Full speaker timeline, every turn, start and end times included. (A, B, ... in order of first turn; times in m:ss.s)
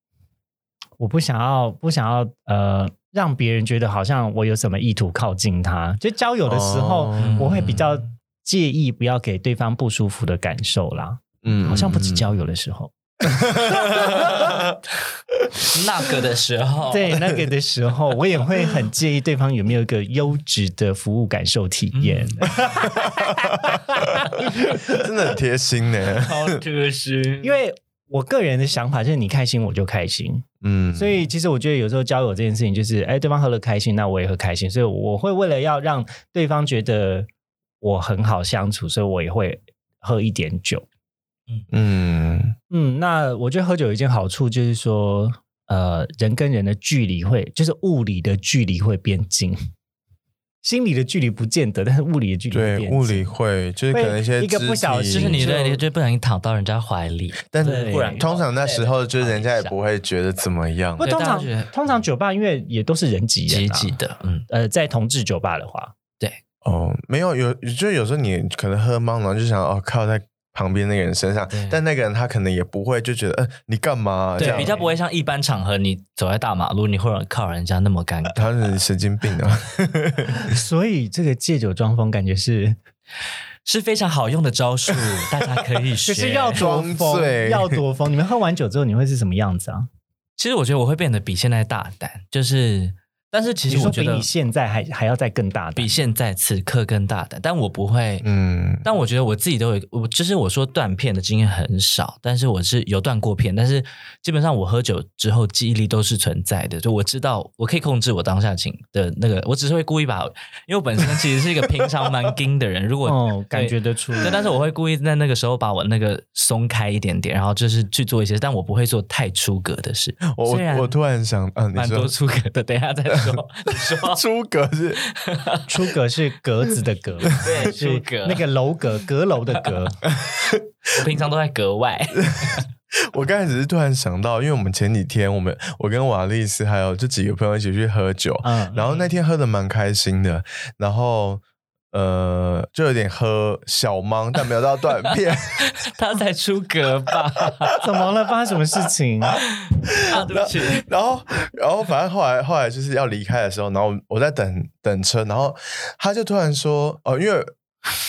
0:01.0-0:12.9 A
0:06.4-0:07.9 B
0:07.2-0:07.8 C
0:11.4-0:12.2 B
0:13.2-0:14.8 B
0:13.9-0:14.2 A
0:15.6-0:17.2 C
0:16.9-0:25.0 A
0:21.9-0:22.5 C
0:23.0-0:23.7 B
0:24.8-0:26.6 B
0:26.0-0:27.6 C
0:27.4-0:37.3 A
0:30.6-0:31.2 B
0:37.8-0:40.8 A
0:41.7-0:42.5 B
0:42.7-0:49.7 A
0:50.6-0:53.3 A
0:52.5-0:55.5 B
0:53.9-0:55.8 A
0:55.1-0:59.7 C
0:57.5-1:01.0 B
0:57.6-0:58.2 A
1:01.0-1:04.0 A
1:01.0-1:01.7 C
1:03.5-1:04.4 C
1:04.5-1:05.9 A
1:06.6-1:14.8 B
1:11.5-1:11.8 C
1:14.4-1:14.9 A
1:14.4-1:18.5 C
1:18.3-1:20.5 B
1:20.4-1:22.8 A
1:23.6-1:26.6 C
1:26.0-1:29.9 A
1:26.6-1:27.8 B
1:30.4-1:34.3 C
1:33.7-1:36.0 A
1:35.8-1:38.3 C
1:38.2-1:38.8 B
1:38.8-2:00.9 C
1:53.0-1:54.4 A
2:00.3-2:02.1 B
2:01.7-2:04.2 C
2:03.2-2:05.0 B
2:05.0-2:05.7 C
2:05.7-2:10.0 A
2:07.3-2:08.4 C
2:10.1-2:10.7 B
2:10.9-2:12.6 C
2:12.1-2:25.7 B
2:18.4-2:18.8 A
2:18.8-2:19.1 C
2:25.8-2:27.8 C
2:27.8-2:29.4 A
2:29.9-2:30.8 C
2:30.1-2:37.5 B